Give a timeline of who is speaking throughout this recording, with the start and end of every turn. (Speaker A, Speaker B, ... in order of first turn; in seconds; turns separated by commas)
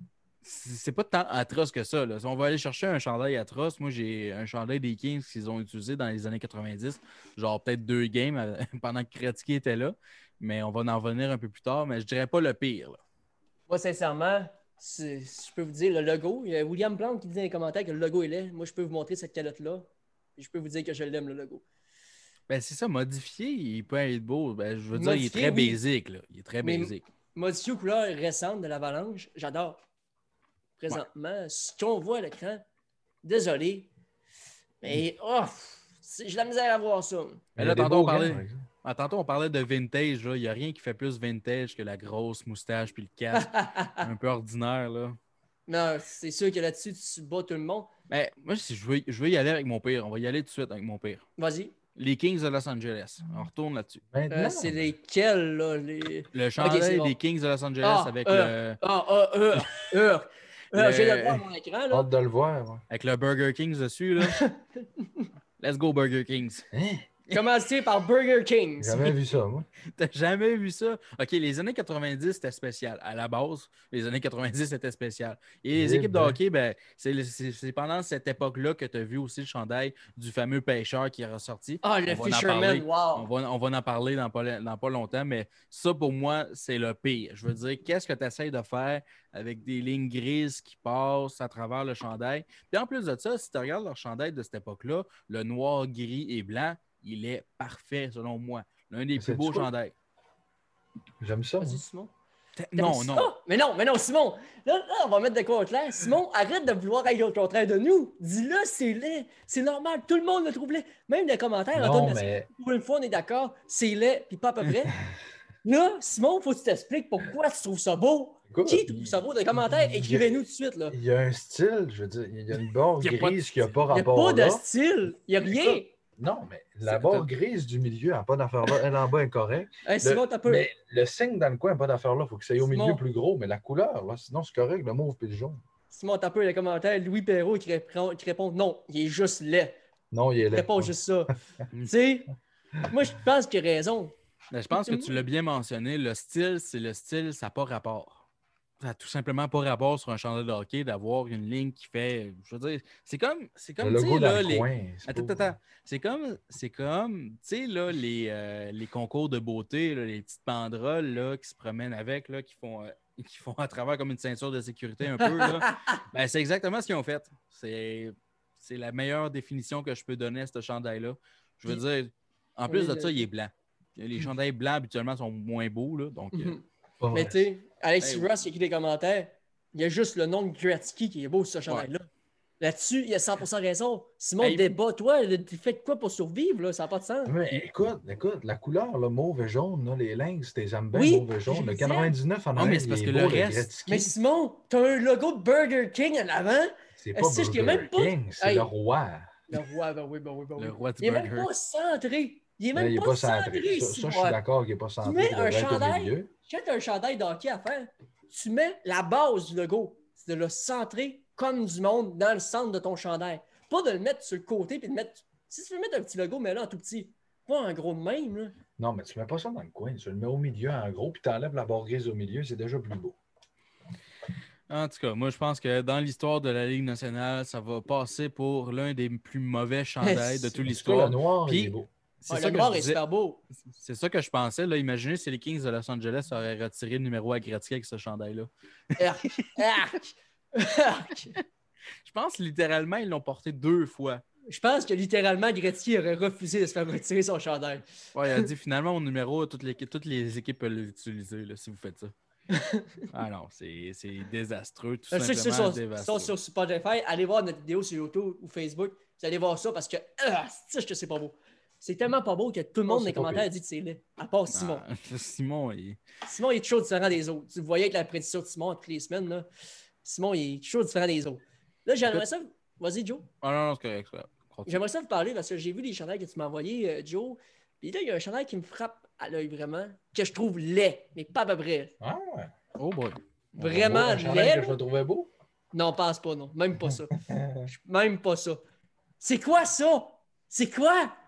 Speaker A: 0.4-13.0, Speaker B: 13.7-21.6, Speaker A: 22.5-27.1, Speaker B: 24.9-25.8, Speaker B: 26.6-29.8, Speaker B: 30.8-32.6, Speaker B: 33.2-33.9, Speaker B: 34.8-37.4, Speaker C: 37.6-38.6, Speaker A: 37.6-45.2, Speaker B: 43.3-44.1, Speaker B: 45.7-47.9, Speaker A: 48.1-51.2, Speaker B: 51.4-51.7, Speaker A: 52.0-54.0, Speaker C: 54.1-54.9, Speaker B: 54.3-57.1, Speaker A: 56.3-58.8, Speaker B: 57.8-62.1, Speaker A: 59.5-59.9, Speaker A: 60.7-61.5, Speaker C: 61.9-62.8, Speaker A: 62.9-64.4, Speaker B: 64.2-65.3, Speaker A: 65.6-66.7, Speaker C: 66.7-67.1, Speaker B: 67.3-69.2, Speaker C: 68.8-69.7, Speaker A: 69.9-99.9, Speaker C: 75.8-76.4, Speaker B: 81.8-83.3, Speaker C: 99.2-99.7, Speaker C: 101.2-101.8, Speaker B: 101.6-102.1, Speaker A: 102.6-103.3, Speaker B: 102.8-115.0, Speaker C: 111.8-112.5, Speaker B: 115.6-121.0, Speaker C: 118.5-120.3, Speaker C: 120.9-124.6, Speaker A: 123.0-123.6, Speaker B: 123.9-125.9, Speaker C: 125.5-135.6, Speaker B: 126.8-127.3, Speaker B: 129.8-130.7, Speaker B: 132.6-133.0, Speaker B: 135.9-139.8, Speaker C: 140.1-140.9, Speaker B: 140.5-141.3, Speaker B: 141.8-142.3, Speaker B: 142.9-144.1, Speaker A: 144.5-148.2, Speaker B: 144.7-145.2, Speaker A: 148.8-176.6, Speaker C: 153.8-155.6, Speaker B: 165.2-166.0, Speaker B: 172.7-173.3, Speaker B: 176.3-182.1, Speaker C: 177.0-177.4, Speaker A: 178.0-178.3, Speaker B: 182.6-187.4, Speaker A: 184.4-184.7, Speaker C: 187.2-194.1, Speaker B: 190.9-192.2, Speaker A: 192.6-193.7, Speaker B: 193.9-198.7, Speaker C: 197.0-199.3, Speaker B: 199.5-204.4, Speaker A: 200.6-201.5, Speaker C: 202.8-206.3, Speaker B: 205.0-218.6, Speaker C: 218.8-223.2, Speaker A: 224.7-233.0, Speaker B: 230.0-230.6, Speaker C: 230.7-231.9, Speaker B: 232.3-233.4, Speaker A: 233.7-239.5, Speaker B: 239.0-241.4, Speaker A: 242.0-244.2, Speaker B: 244.5-248.5, Speaker A: 248.1-252.1, Speaker B: 252.5-253.1, Speaker A: 253.1-256.3, Speaker B: 255.1-264.8, Speaker C: 262.9-263.5, Speaker A: 264.5-266.0, Speaker B: 266.2-269.4, Speaker B: 270.0-273.3, Speaker A: 273.4-274.8, Speaker B: 274.6-281.9, Speaker C: 282.0-282.5, Speaker A: 282.8-283.2, Speaker B: 283.6-284.8, Speaker C: 283.6-285.3, Speaker B: 285.7-287.1, Speaker C: 286.9-287.7, Speaker B: 287.6-288.6, Speaker B: 289.2-291.1